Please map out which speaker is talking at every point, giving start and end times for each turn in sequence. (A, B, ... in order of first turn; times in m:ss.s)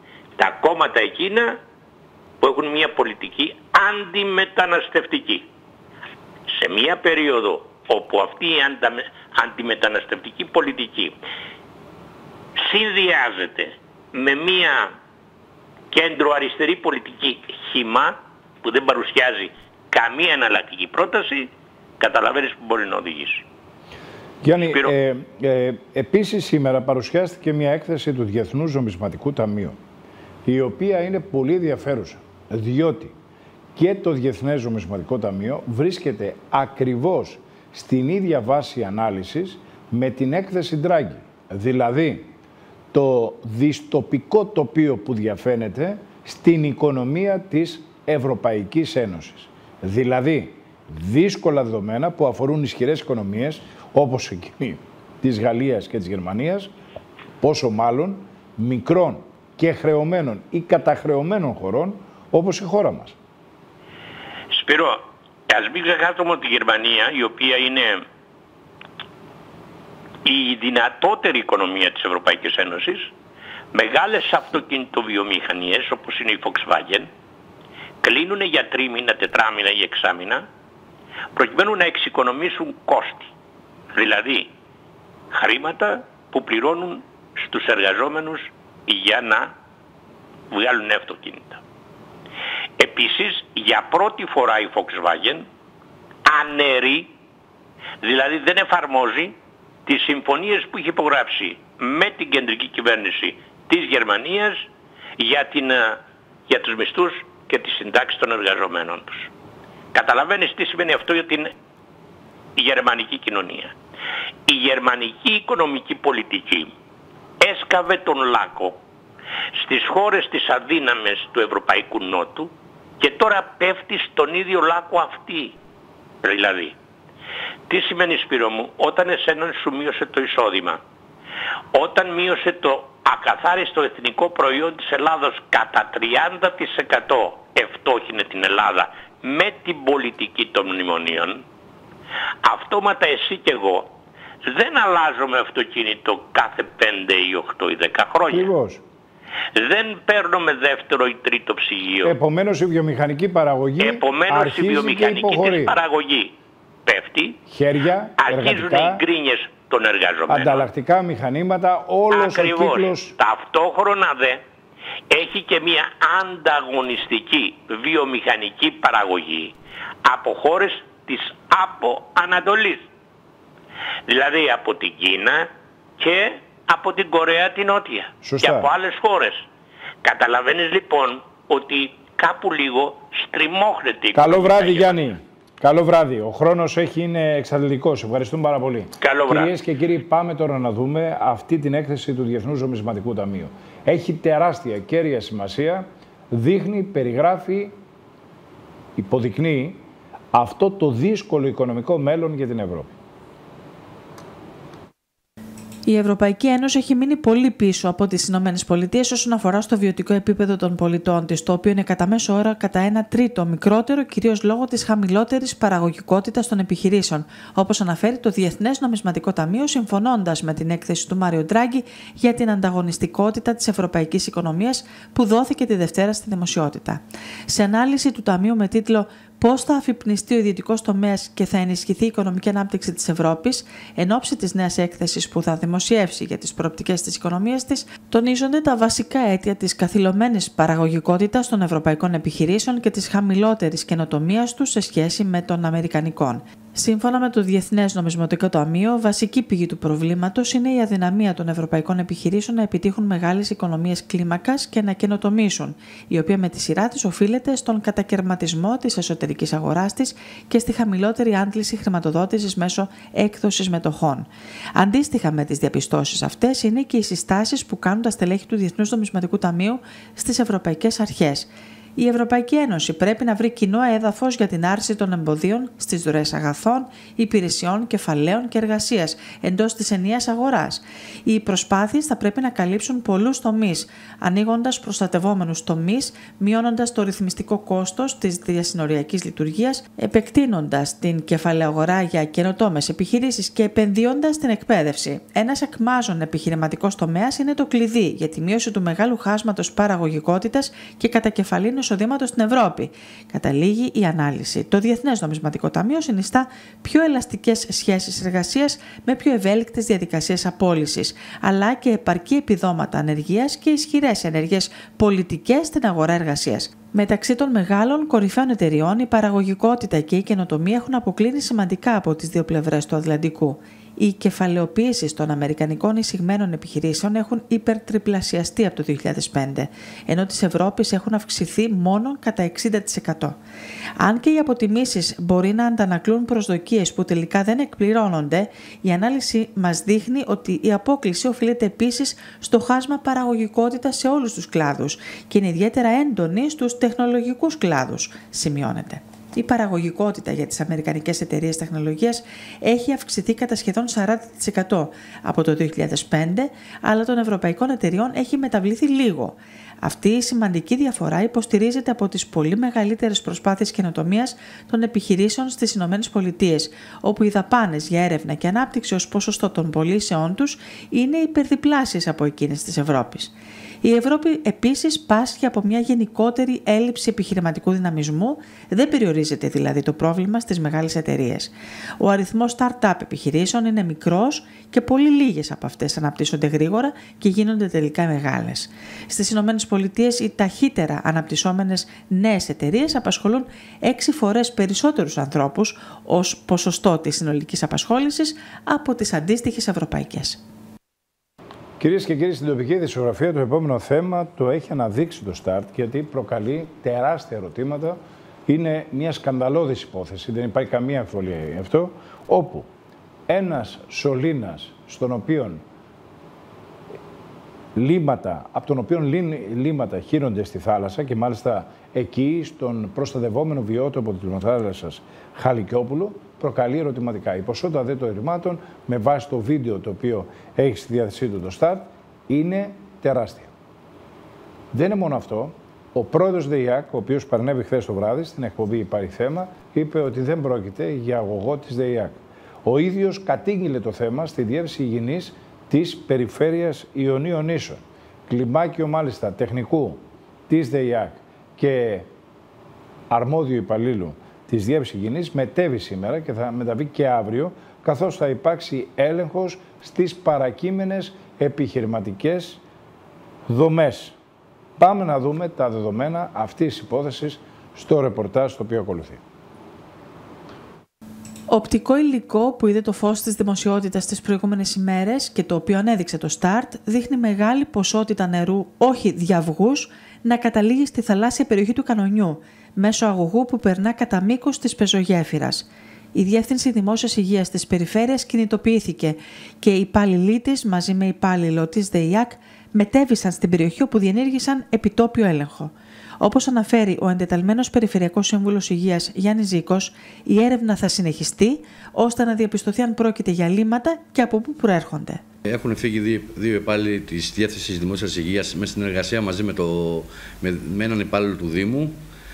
0:00.4-0:01.6 A
0:02.4-0:05.5 A
0:06.5-0:11.2 A
0:12.6-0:14.9 A
0:15.9-0:23.4 A
0:24.4-0:29.8 B
0:30.4-0:33.1 B
0:33.8-0:42.3 B
0:42.9-0:56.7 B
0:57.4-1:03.2 B
1:04.5-1:08.0 A
1:10.2-1:13.1 A
1:13.7-1:17.1 A
1:18.0-1:20.5 A
1:21.4-1:23.3 A
1:23.9-1:24.5 A
1:25.3-1:29.5 A
1:30.5-1:31.6 A
1:32.8-1:35.5 A
1:36.2-1:37.1 A
1:38.0-1:39.4 A
1:39.9-1:44.6 A
1:45.2-1:49.3 A
1:49.9-1:51.5 A
1:52.6-1:53.7 A
1:54.5-1:56.7 A
1:57.4-1:58.8 A
1:59.6-2:05.6 A
2:06.2-2:06.8 A
2:07.7-2:10.8 A
2:11.7-2:21.4 A
2:22.4-2:23.9 A
2:24.4-2:28.5 A
2:28.3-2:28.8 B
2:29.6-2:32.1 A
2:32.0-2:35.8 B
2:33.8-2:36.3 A
2:36.9-2:37.4 A
2:37.5-2:39.0 B
2:38.2-2:40.6 A
2:40.3-2:43.1 B
2:42.1-2:44.4 A
2:45.1-2:49.5 A
2:50.0-2:52.8 A
2:54.1-2:59.4 A
2:58.2-2:58.7 B
3:00.0-3:05.0 A
3:04.1-3:17.7 B
3:09.0-3:09.5 A
3:19.0-3:23.0 B
3:25.9-5:33.4 C
5:34.0-6:40.4 C
6:41.8-6:52.7 B
6:53.3-6:55.6 B
6:57.7-7:13.5 B
7:14.7-7:32.1 B
7:33.1-7:42.6 B
7:43.5-7:44.2 B
7:44.8-7:49.2 B
7:51.5-8:25.2 C
8:25.4-8:32.0 D